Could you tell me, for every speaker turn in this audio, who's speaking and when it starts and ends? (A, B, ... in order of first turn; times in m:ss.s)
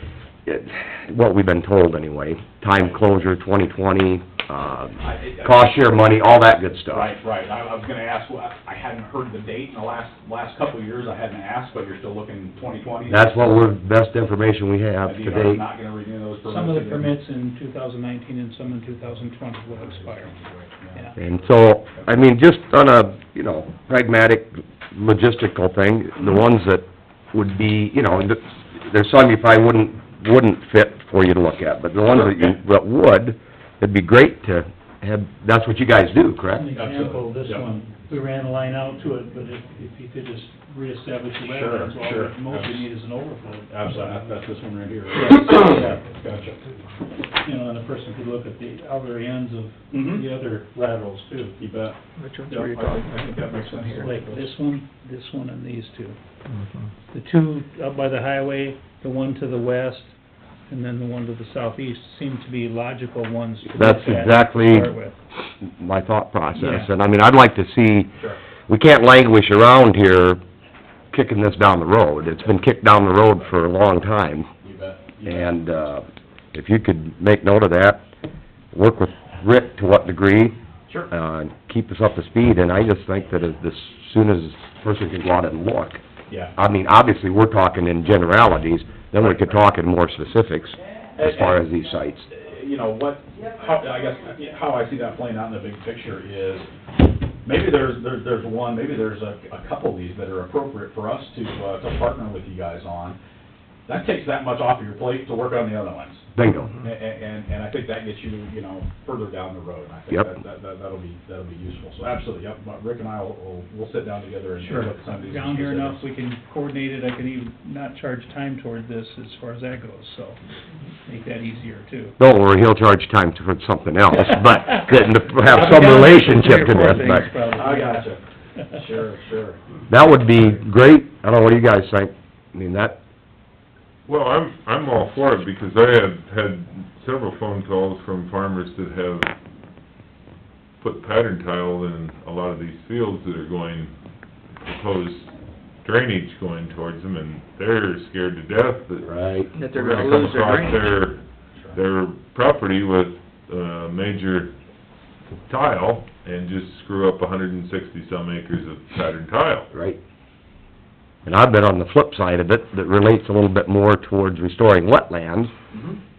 0:00.5-0:07.1 A
0:05.0-0:06.1 B
0:06.9-0:13.7 B
0:13.1-0:15.6 A
0:15.0-0:17.1 B
0:16.4-0:20.4 C
0:19.7-0:21.3 B
0:20.9-0:21.2 C
0:21.2-0:36.7 A
0:36.5-0:44.3 C
0:36.7-0:37.7 B
0:41.4-0:42.9 B
0:43.7-0:46.6 B
0:45.1-0:46.1 C
0:46.9-0:51.6 C
0:49.9-0:50.2 B
0:51.6-0:54.5 B
0:52.2-0:54.1 D
0:54.0-0:56.2 C
0:56.5-0:56.8 D
0:57.1-1:00.1 C
1:00.7-1:05.2 C
1:03.6-1:04.9 A
1:05.6-1:08.1 A
1:06.6-1:06.9 B
1:08.7-1:10.4 A
1:11.1-1:14.5 A
1:14.6-1:15.6 B
1:15.2-1:18.0 A
1:18.7-1:20.6 A
1:21.1-1:26.0 A
1:26.3-1:26.5 B
1:26.6-1:32.3 A
1:29.2-1:29.7 B
1:31.1-1:31.6 B
1:32.3-1:36.7 B
1:37.4-1:43.2 B
1:43.9-1:46.2 B
1:46.3-1:46.8 A
1:46.8-1:56.0 B
1:54.6-2:00.4 C
2:01.0-2:02.2 C
2:02.2-2:07.3 A
2:04.1-2:04.8 C
2:05.4-2:08.8 C
2:05.6-2:05.9 B
2:07.5-2:09.6 B
2:09.9-2:13.0 A
2:14.0-2:19.3 E
2:20.8-2:23.9 E
2:24.6-2:25.3 E
2:25.8-2:31.2 E
2:29.0-2:29.5 A
2:29.5-2:30.9 D
2:31.5-2:31.8 B
2:31.7-2:34.5 E
2:35.5-2:39.7 E
2:39.7-2:40.0 A
2:41.2-2:45.5 A
2:45.7-2:46.0 B